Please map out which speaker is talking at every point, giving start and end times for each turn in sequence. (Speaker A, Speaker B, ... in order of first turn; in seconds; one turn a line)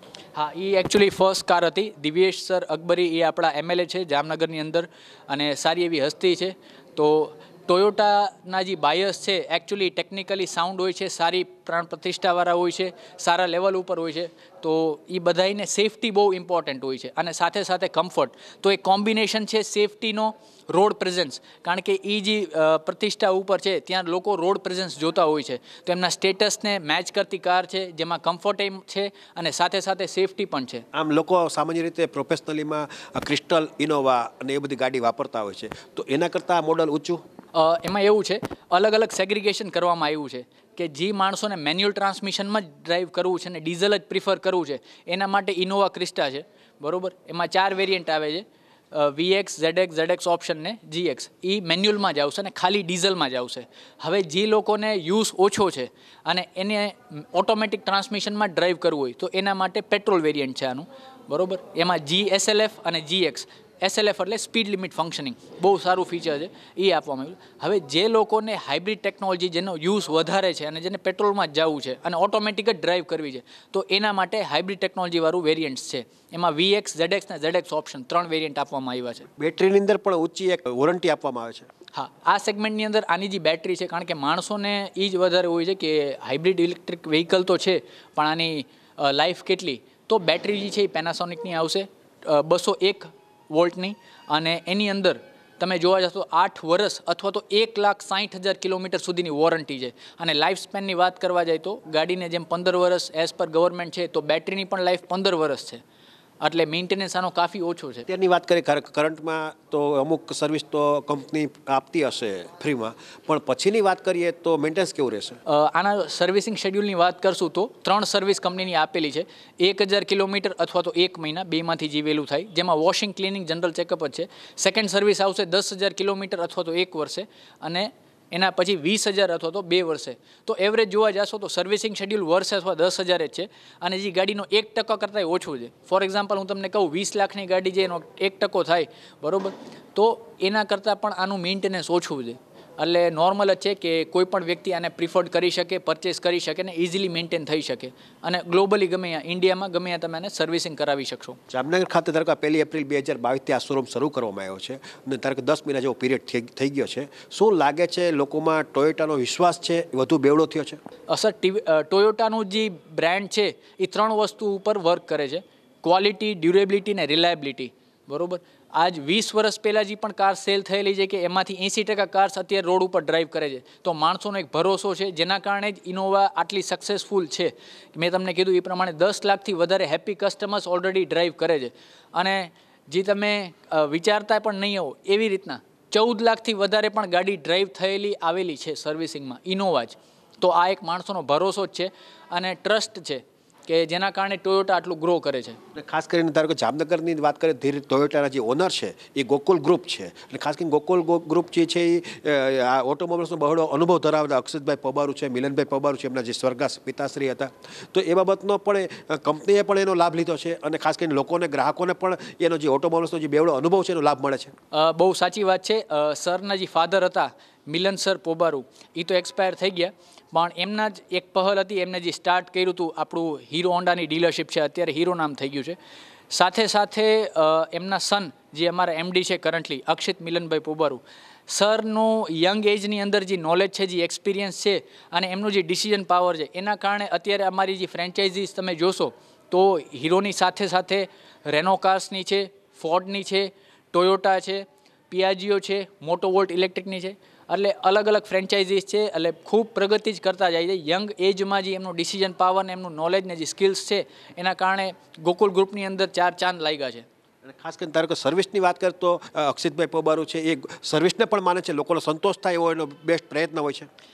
Speaker A: 0.3-30.8
Speaker B: 30.9-37.2
Speaker A: 37.5-79.3
Speaker B: 79.4-81.7
Speaker A: 81.9-105.8
Speaker A: 106.4-108.1
Speaker B: 108.1-115.4
Speaker A: 115.5-151.4
Speaker B: 151.5-160.8
Speaker A: 161.1-195.6
Speaker B: 195.7-214.5
Speaker A: 214.7-225.8
Speaker A: 226.3-257.1
Speaker B: 257.4-263.9